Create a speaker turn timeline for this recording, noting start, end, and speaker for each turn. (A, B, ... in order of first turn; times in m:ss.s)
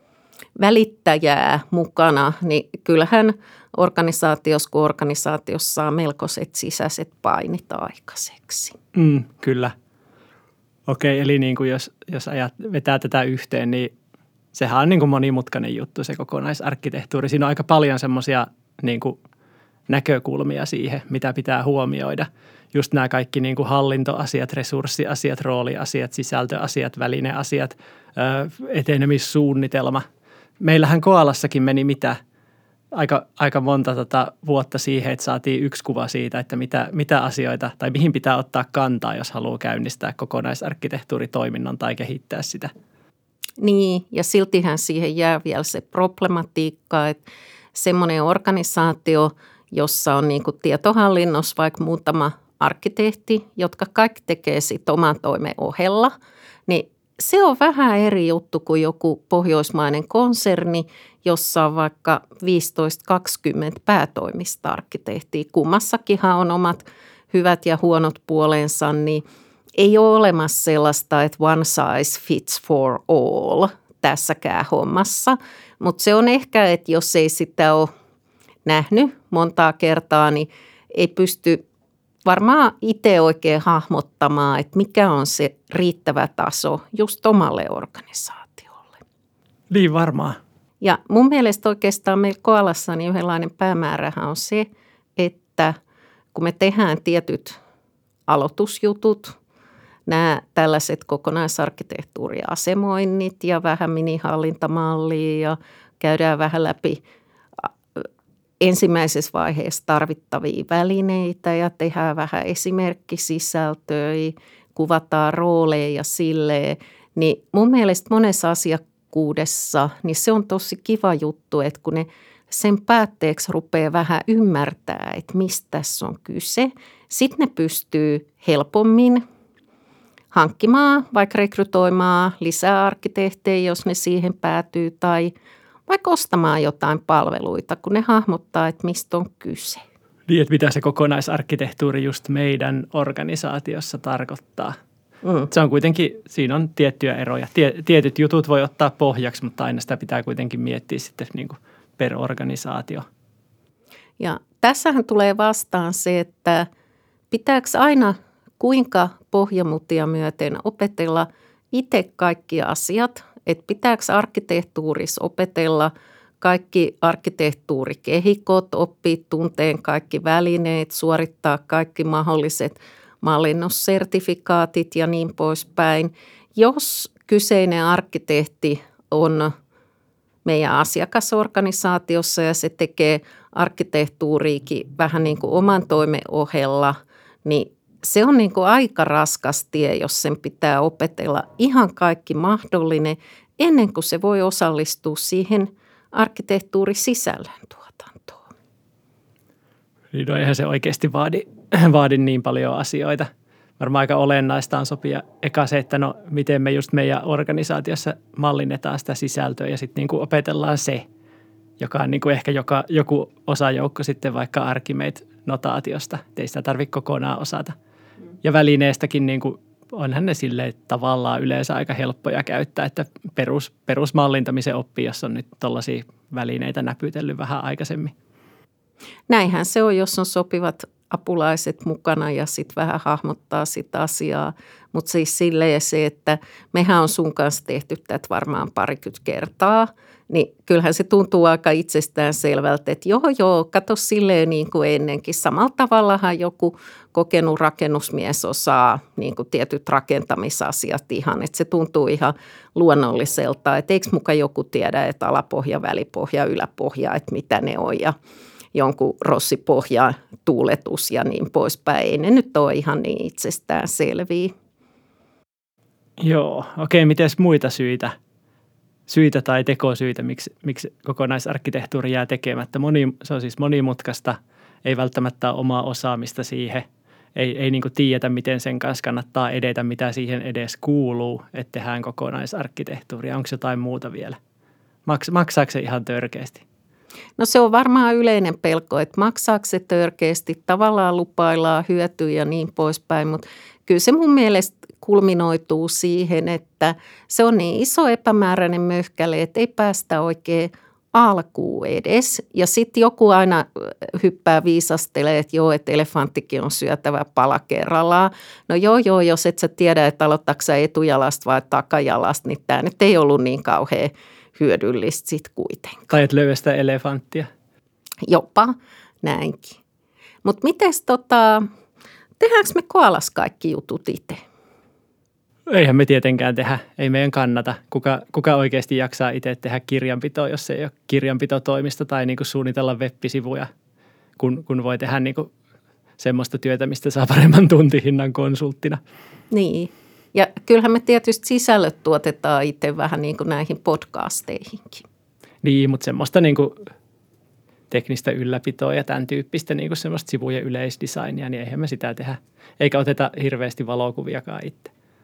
0:00.6-0:08.8 A
0:08.9-0:09.7 B
0:10.9-0:13.9 B
0:14.5-0:19.2 B
0:19.9-0:30.0 B
0:30.6-0:32.2 B
0:32.9-0:42.7 B
0:43.6-0:47.2 A
0:47.7-0:56.1 A
0:56.7-1:09.2 A
1:09.8-1:17.9 A
1:18.6-1:21.6 A
1:22.2-1:29.0 A
1:29.7-1:30.4 B
1:30.8-1:35.8 A
1:36.3-1:37.6 A
1:38.3-1:39.3 A
1:40.1-1:47.0 A
1:48.6-2:09.2 A
2:10.3-2:15.3 A
2:15.9-2:19.8 A
2:20.3-2:24.7 B
2:25.2-2:25.5 A
2:25.5-2:33.0 B
2:34.2-2:36.7 A
2:37.3-2:59.5 A
3:00.4-3:18.5 A
3:20.1-3:31.0 B
3:31.8-3:37.7 B
3:38.4-3:48.1 B
3:49.3-4:18.1 A
4:18.7-4:24.5 A
4:26.2-4:28.1 B
4:29.1-4:44.4 B
4:45.0-4:46.6 B
4:47.4-5:16.2 A
5:16.1-5:17.5 B
5:18.3-5:19.8 A
5:20.4-5:21.6 A
5:22.4-5:24.4 A
5:25.7-5:33.7 B
5:34.4-5:35.5 B
5:36.2-5:39.0 B
5:39.5-5:45.0 A
5:45.6-5:46.8 B
5:47.9-5:54.9 B